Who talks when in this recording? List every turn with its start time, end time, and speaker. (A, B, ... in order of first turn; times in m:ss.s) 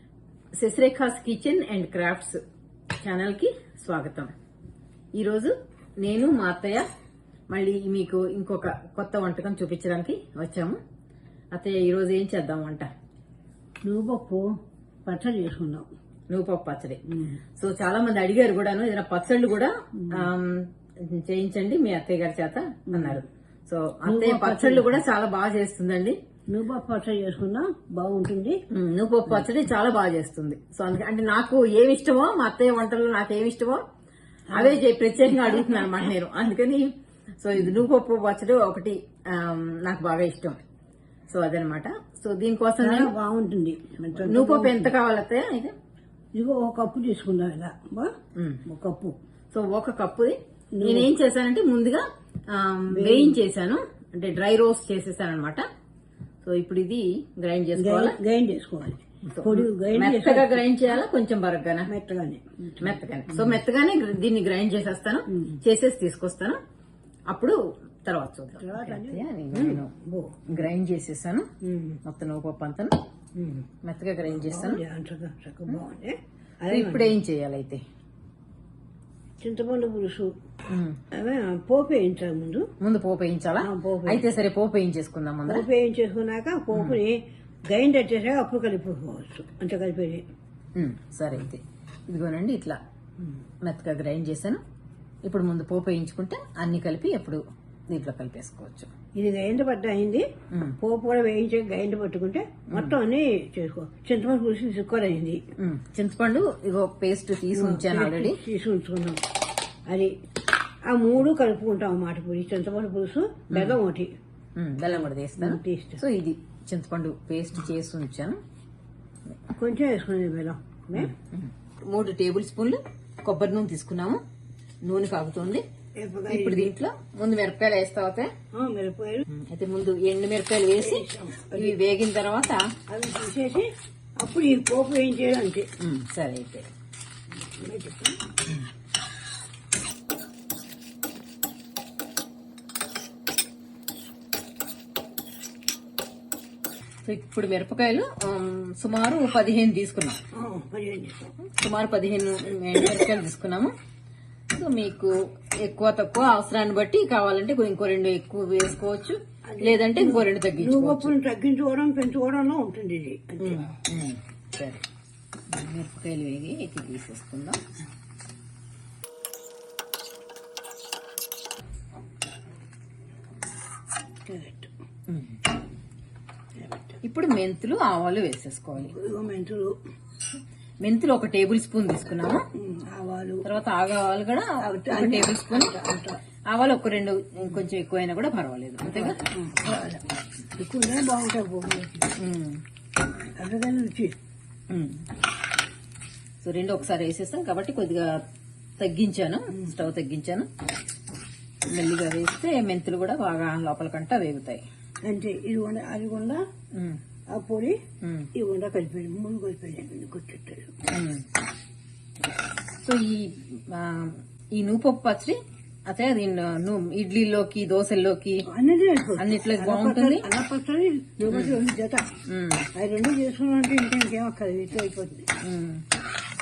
0:00.6-0:02.4 A
0:03.0-0:04.3 A
0:05.1-0:06.8 A
0:07.5-0:10.8 A
0:11.5-0:12.9 A
0:13.8-0:14.4 B
0:15.0-0:15.8 B
0:16.3-0:17.0 A
0:17.1-0:17.4 B
0:17.6-0:26.2 A
0:22.9-0:23.2 B
0:24.0-0:25.0 B
0:26.5-0:28.6 B
0:28.7-0:33.8 A
0:34.5-0:34.8 B
0:34.5-0:40.6 A
0:35.4-0:36.1 B
0:41.3-0:43.1 A
0:42.8-0:44.9 B
0:44.2-0:45.7 A
0:46.3-0:48.1 B
0:48.3-0:48.6 A
0:48.6-0:49.1 B
0:49.5-0:55.6 A
0:50.8-0:51.1 B
0:52.9-0:53.4 B
0:56.4-0:58.2 A
0:57.8-1:01.0 B
0:59.3-1:01.9 A
1:01.9-1:03.6 B
1:02.8-1:06.6 A
1:07.3-1:09.9 A
1:08.6-1:10.6 B
1:10.5-1:11.5 A
1:11.6-1:12.0 B
1:12.0-1:13.0 A
1:13.4-1:13.6 B
1:13.8-1:14.8 A
1:14.2-1:17.1 B
1:16.7-1:17.8 A
1:19.4-1:20.3 B
1:20.7-1:21.0 A
1:21.1-1:22.7 B
1:22.8-1:25.7 A
1:23.6-1:24.2 B
1:25.5-1:27.2 B
1:26.7-1:27.0 A
1:27.7-1:30.2 B
1:30.8-1:32.8 A
1:33.6-1:34.6 A
1:35.2-1:38.9 A
1:39.2-1:40.2 B
1:40.5-1:40.8 A
1:40.8-1:45.4 B
1:45.6-1:48.4 A
1:47.5-1:49.2 B
1:50.9-1:54.1 B
1:53.5-1:53.8 A
1:54.6-1:58.4 A
1:55.0-1:56.0 B
1:59.6-2:01.1 B
2:00.9-2:04.2 A
2:04.8-2:05.6 A
2:06.0-2:06.8 B
2:06.3-2:08.3 A
2:08.5-2:09.3 B
2:09.3-2:12.6 A
2:10.8-2:11.8 B
2:12.9-2:13.7 B
2:14.2-2:15.7 B
2:15.8-2:16.7 A
2:17.4-2:18.2 B
2:27.0-2:30.2 A
2:30.3-2:31.3 B
2:31.5-2:33.7 A
2:34.5-2:41.1 A
2:39.5-2:43.7 B
2:43.4-2:44.8 A
2:45.5-2:47.6 A
2:54.2-2:54.7 B
2:55.1-2:55.4 A
2:56.6-2:57.0 B
2:57.0-2:58.9 A
2:58.8-2:59.8 B
3:00.8-3:02.4 A
3:02.5-3:03.4 B
3:03.4-3:05.7 A
3:04.6-3:06.2 B
3:06.5-3:09.2 A
3:08.8-3:10.0 B
3:10.6-3:12.1 B
3:12.2-3:12.6 A
3:13.4-3:14.1 B
3:14.7-3:15.0 A
3:16.4-3:18.2 A
3:18.8-3:20.5 A
3:21.7-3:24.6 A
3:25.0-3:26.4 B
3:26.7-3:27.0 A
3:27.3-3:27.8 B
3:28.0-3:28.3 A
3:28.3-3:30.7 B
3:30.9-3:31.2 A
3:32.8-3:38.5 A
3:38.5-3:42.1 B
3:39.2-3:40.2 A
3:41.3-3:41.6 A
3:42.3-3:42.7 A
3:42.7-3:45.3 B
3:45.4-3:45.8 A